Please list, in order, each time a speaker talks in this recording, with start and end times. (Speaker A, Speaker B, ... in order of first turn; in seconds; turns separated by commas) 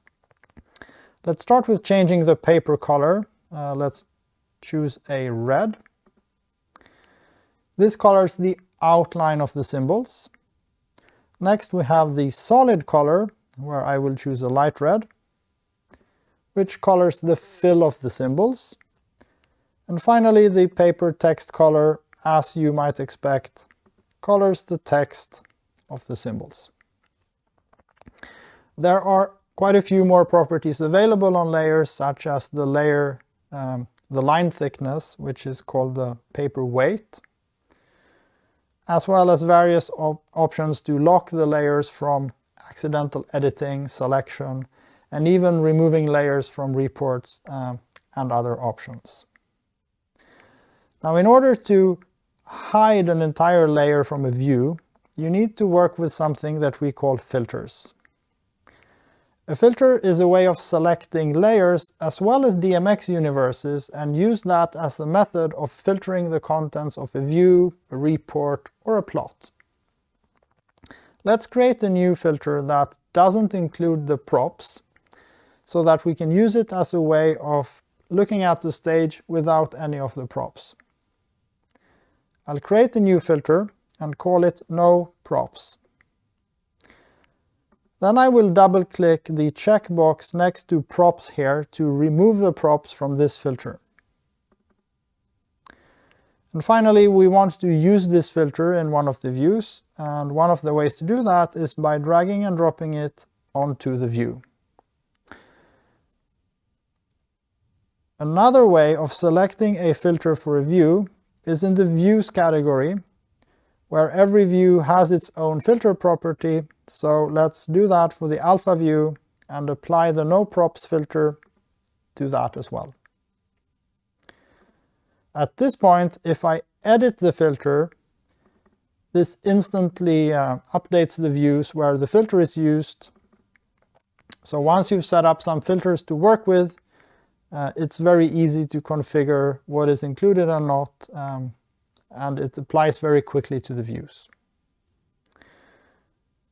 Speaker A: 1.2-4.1, Speaker A: 4.6-5.8, Speaker A: 7.8-10.3, Speaker A: 11.4-15.1, Speaker A: 16.6-18.8, Speaker A: 19.9-23.7, Speaker A: 24.2-26.7, Speaker A: 28.8-37.2, Speaker A: 38.9-49.3, Speaker A: 51.0-57.9, Speaker A: 59.5-69.5, Speaker A: 71.2-74.8, Speaker A: 75.7-80.8, Speaker A: 82.5-85.8, Speaker A: 88.0-93.8, Speaker A: 96.5-104.4, Speaker A: 108.2-113.0, Speaker A: 113.9-121.4, Speaker A: 122.2-123.0, Speaker A: 125.3-127.9, Speaker A: 129.1-133.1, Speaker A: 134.4-136.8, Speaker A: 137.5-141.6, Speaker A: 142.1-144.3